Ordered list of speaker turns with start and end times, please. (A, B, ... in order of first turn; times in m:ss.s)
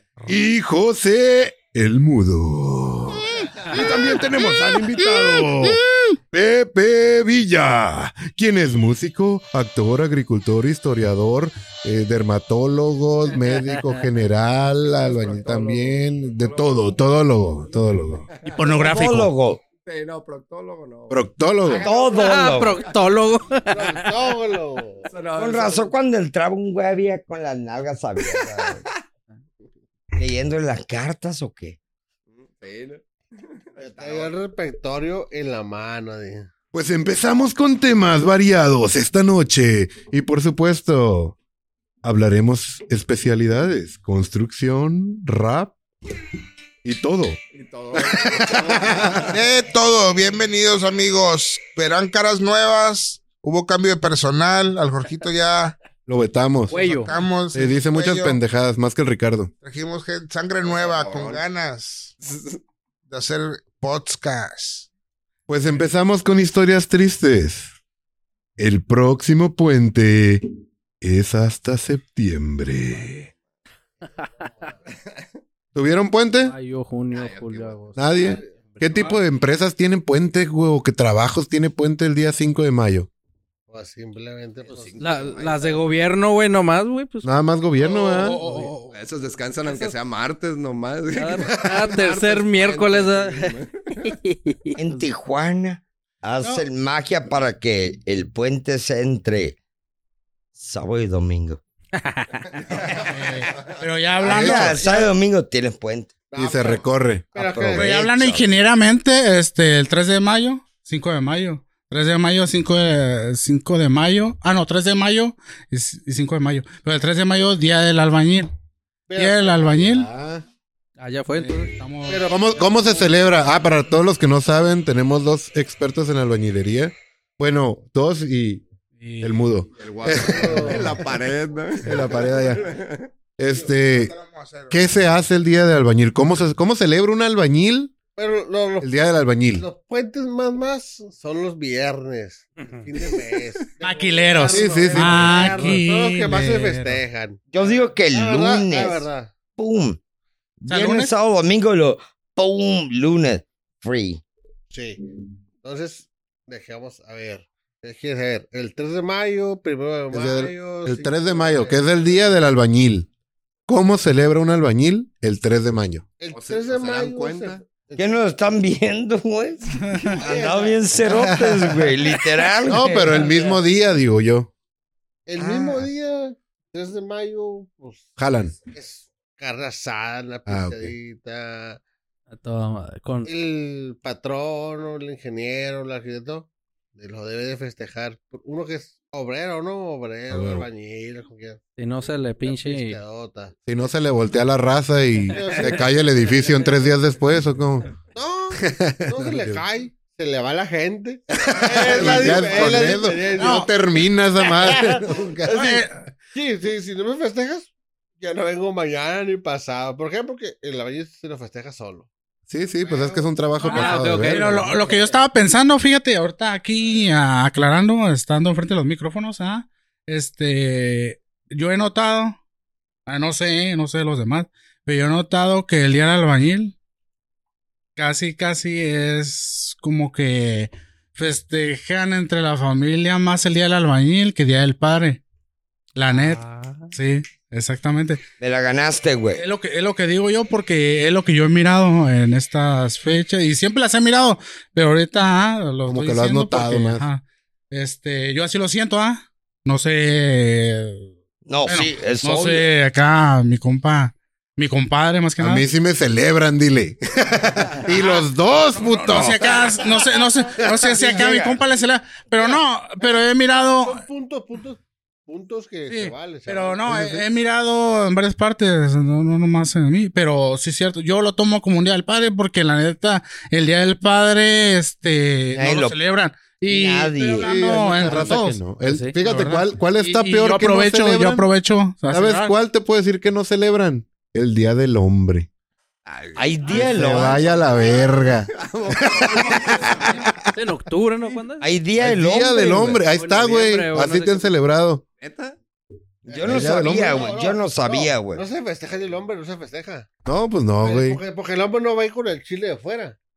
0:00.2-0:00.5 A
0:00.3-0:05.8 B
0:03.6-0:03.8 A
0:04.5-0:06.1 A
0:06.3-0:18.3 B
0:15.0-0:15.9 C
0:16.4-0:16.8 C
0:18.5-0:19.3 A
0:18.8-0:19.6 D
0:19.8-0:23.1 C
0:21.1-0:21.8 B
0:21.8-0:22.8 D
0:22.0-0:24.3 E
0:23.7-0:25.1 F
0:25.0-0:25.9 C
0:25.4-0:28.8 D
0:28.2-0:28.9 C
0:30.2-0:31.8 D
0:32.3-0:34.3 C
0:33.8-0:36.5 F
0:36.7-0:41.3 B
0:42.0-0:45.8 B
0:46.8-0:47.4 B
0:47.5-0:49.3 C
0:48.0-0:49.3 B
0:49.2-0:55.8 G
0:56.1-0:56.8 B
0:56.7-0:57.1 E
0:56.7-0:58.4 G
0:57.5-0:59.5 B
0:59.6-1:02.2 G
1:00.6-1:01.4 C
1:02.2-1:02.6 C
1:03.1-1:04.9 G
1:05.5-1:07.7 B
1:08.6-1:10.4 B
1:11.0-1:13.3 B
1:15.7-1:16.5 B
1:16.4-1:19.2 E
1:17.1-1:18.0 C
1:18.0-1:23.1 B
1:18.0-1:18.6 F
1:23.7-1:25.6 F
1:24.7-1:25.8 C
1:25.0-1:27.3 E
1:27.2-1:28.4 B
1:27.8-1:28.9 A
1:28.4-1:28.7 E
1:28.9-1:34.1 C
1:31.1-1:35.0 E
1:34.7-1:39.6 D
1:40.5-1:41.6 D
1:42.0-1:42.3 E
1:43.0-1:44.9 A
1:44.2-1:44.8 B
1:44.2-1:46.2 D
1:46.3-1:48.0 F
1:46.3-1:47.9 B
1:47.4-1:48.5 D
1:47.7-1:58.5 A
1:59.1-1:59.6 F
1:59.2-2:00.1 A
1:59.5-2:00.4 B
2:01.0-2:01.7 E
2:01.4-2:02.3 A
2:02.1-2:03.2 F
2:02.3-2:08.6 B
2:09.0-2:09.4 A
2:09.2-2:11.1 B
2:09.8-2:13.1 C
2:10.3-2:11.0 F
2:11.8-2:12.6 B
2:13.4-2:14.1 B
2:13.6-2:14.8 G
2:14.7-2:17.9 B
2:18.1-2:18.9 F
2:18.8-2:19.6 B
2:19.5-2:29.4 F
2:23.8-2:27.0 A
2:24.5-2:25.7 B
2:27.5-2:30.0 D
2:30.6-2:34.2 D
2:30.7-2:31.1 A
2:34.7-2:35.0 F
2:35.6-2:42.4 F
2:40.1-2:43.1 B
2:43.7-2:46.0 B
2:46.2-2:48.2 F
2:46.3-2:47.6 C
2:48.0-2:53.2 D
2:49.8-2:50.2 A
2:50.1-2:51.0 F
2:51.0-2:51.9 B
2:52.6-2:54.5 B
2:55.3-3:01.8 F
2:55.4-2:55.9 D
2:58.2-2:58.6 B
3:00.5-3:00.9 B
3:02.3-3:03.3 E
3:03.2-3:11.6 F
3:10.3-3:10.6 B
3:11.8-3:13.0 E
3:12.4-3:13.5 F
3:13.6-3:17.9 B
3:15.3-3:15.9 F
3:15.3-3:15.7 E
3:18.1-3:23.7 F
3:18.6-3:19.6 B
3:21.7-3:25.8 B
3:23.4-3:23.7 A
3:24.4-3:25.8 F
3:25.5-3:25.9 A
3:26.3-3:32.1 F
3:32.5-3:34.5 B
3:32.8-3:35.0 F
3:33.6-3:35.1 E
3:33.7-3:42.4 A
3:43.0-3:46.7 A
3:48.0-3:55.2 A
3:55.9-3:58.2 A
3:56.1-3:56.9 E
3:58.4-3:59.4 D
3:59.4-4:11.1 A
4:05.9-4:07.0 B
4:11.4-4:12.7 D
4:11.6-4:15.6 A
4:15.4-4:19.8 B
4:17.9-4:18.2 A
4:18.8-4:24.0 A
4:20.9-4:21.6 D
4:22.4-4:23.2 F
4:23.8-4:26.9 F
4:25.9-4:38.6 A
4:26.9-4:27.2 B
4:35.5-4:36.0 D
4:36.6-4:37.5 D
4:37.4-4:41.4 B
4:38.8-4:39.1 E
4:39.2-4:42.5 A
4:42.1-4:45.5 B
4:46.0-4:50.1 C
4:46.4-4:47.5 D
4:46.7-4:50.4 B
4:50.5-4:51.7 E
4:51.6-4:53.0 D
4:52.0-4:55.0 B
4:53.1-4:54.5 E
4:55.2-4:55.6 C
4:56.3-4:58.4 D
4:56.3-5:00.1 F
4:56.4-4:57.3 B
5:00.2-5:01.2 B
5:00.8-5:03.2 F